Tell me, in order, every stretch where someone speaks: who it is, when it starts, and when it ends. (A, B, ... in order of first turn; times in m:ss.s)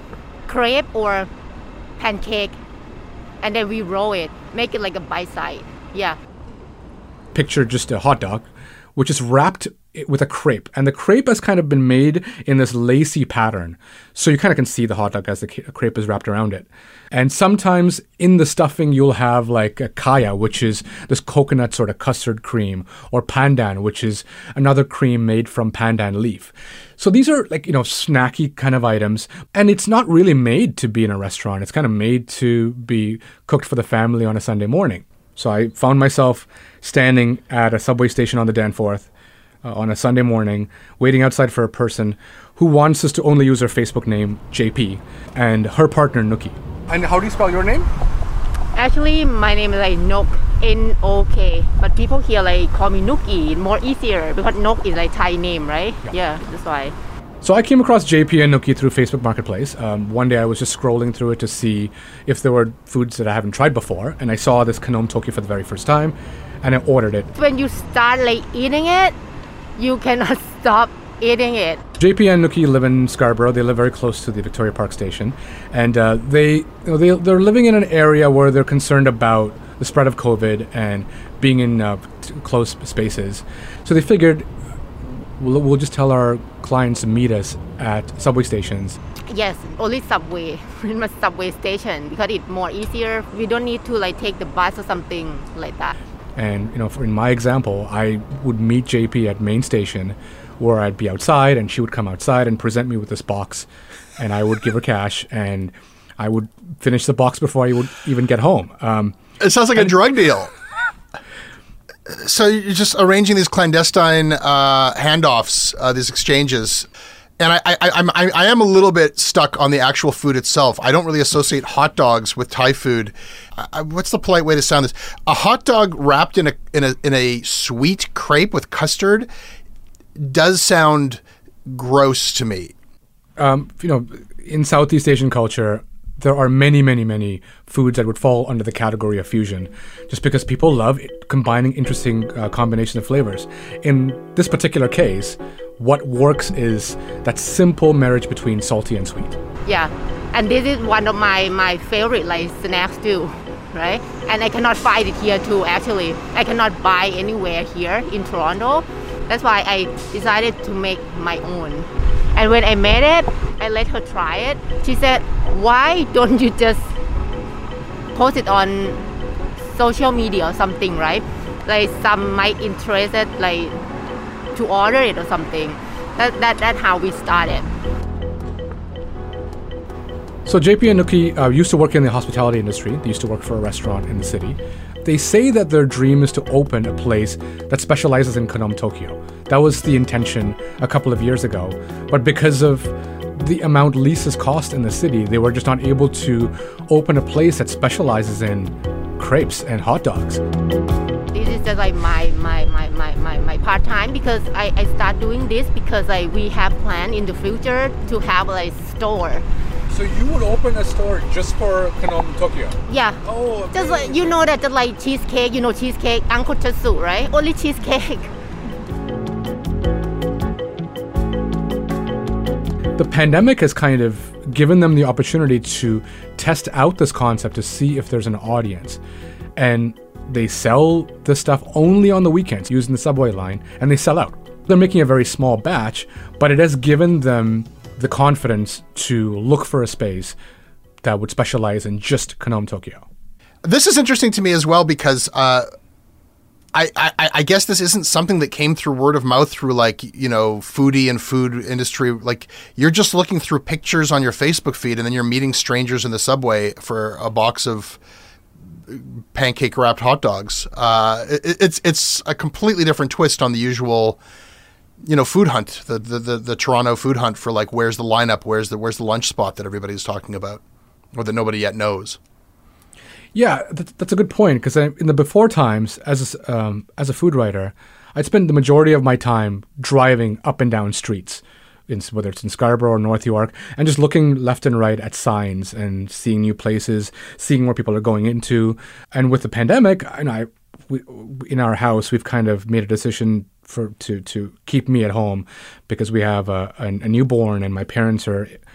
0:00.5-0:01.3 A
0:02.0-0:02.6 A
0:03.4-0:06.2 A
0:07.3-0:39.1 B
0:39.6-0:47.9 B
0:48.8-0:56.9 A
0:57.4-1:07.3 B
1:07.3-1:09.1 A
1:09.8-1:11.8 A
1:12.0-1:24.5 B
1:25.4-1:29.0 B
1:29.3-1:35.9 A
1:36.4-1:43.7 B
1:44.2-1:49.2 B
1:49.4-1:50.5 C
1:52.1-1:56.9 C
1:57.4-2:09.3 C
2:10.2-2:12.7 C
2:13.4-2:29.4 B
2:29.6-2:46.9 A
2:48.1-2:49.0 A
2:49.7-2:53.8 A
2:54.5-2:57.7 A
3:00.4-3:20.4 B
3:21.3-3:29.4 A
3:29.9-3:34.4 B
3:32.9-3:33.2 A
3:33.7-3:38.3 A
3:43.0-3:49.0 B
3:49.6-4:00.3 B
4:01.0-4:03.0 B
4:03.6-4:05.7 C
4:06.7-4:18.0 C
4:18.8-4:24.2 C
4:25.0-4:30.6 C
4:31.1-4:32.2 C
4:33.3-4:58.6 B